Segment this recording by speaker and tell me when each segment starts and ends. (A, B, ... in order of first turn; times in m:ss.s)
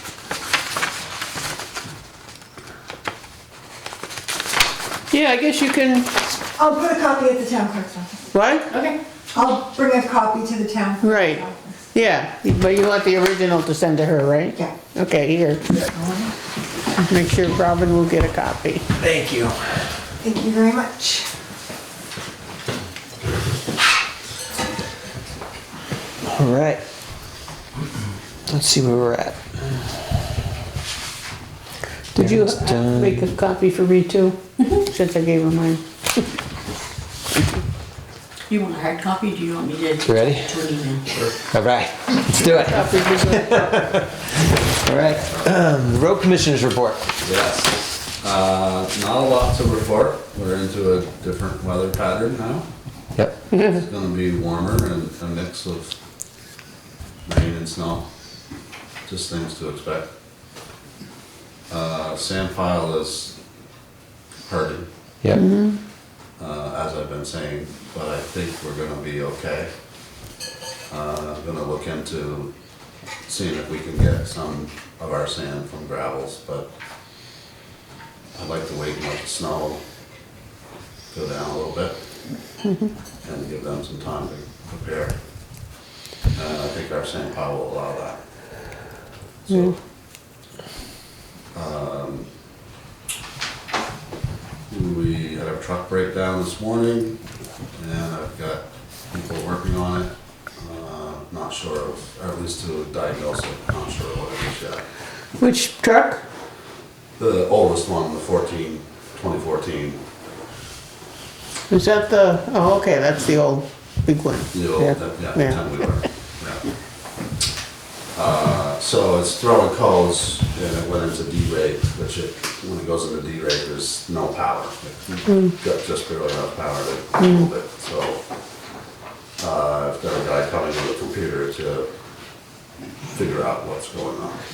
0:05.1-0:06.1 A
0:06.6-0:11.8 B
0:08.3-0:08.7 A
0:11.0-0:15.7 A
0:15.8-0:16.3 B
0:17.0-0:18.8 A
0:19.0-0:19.8 C
0:20.2-0:21.3 B
0:26.2-0:26.8 C
0:28.5-0:29.8 C
0:32.1-0:35.8 A
0:32.2-0:33.2 C
0:38.5-0:41.0 D
0:40.0-0:40.8 C
0:41.5-0:47.0 C
0:42.3-0:43.9 A
0:45.0-0:45.5 E
0:47.2-0:52.6 E
0:53.5-0:53.8 A
0:53.5-0:56.0 E
0:57.2-0:58.0 E
0:59.1-1:00.1 E
1:01.7-1:03.4 E
1:04.5-1:04.9 E
1:05.3-1:05.8 A
1:06.4-1:09.7 E
1:10.9-1:12.5 E
1:13.2-1:16.7 E
1:18.3-1:19.8 E
1:21.1-1:22.0 E
1:22.6-1:22.9 A
1:23.2-1:25.1 E
1:26.3-1:28.2 E
1:29.4-1:29.8 E
1:31.5-1:32.3 E
1:34.7-1:37.2 E
1:37.8-1:44.8 E
1:45.4-1:46.2 A
1:47.2-1:50.0 E
1:51.7-1:55.6 A
1:54.5-1:56.6 E
1:58.1-2:08.2 E
2:05.3-2:05.5 A
2:07.2-2:07.5 A
2:09.4-2:11.9 E
2:13.1-2:14.4 E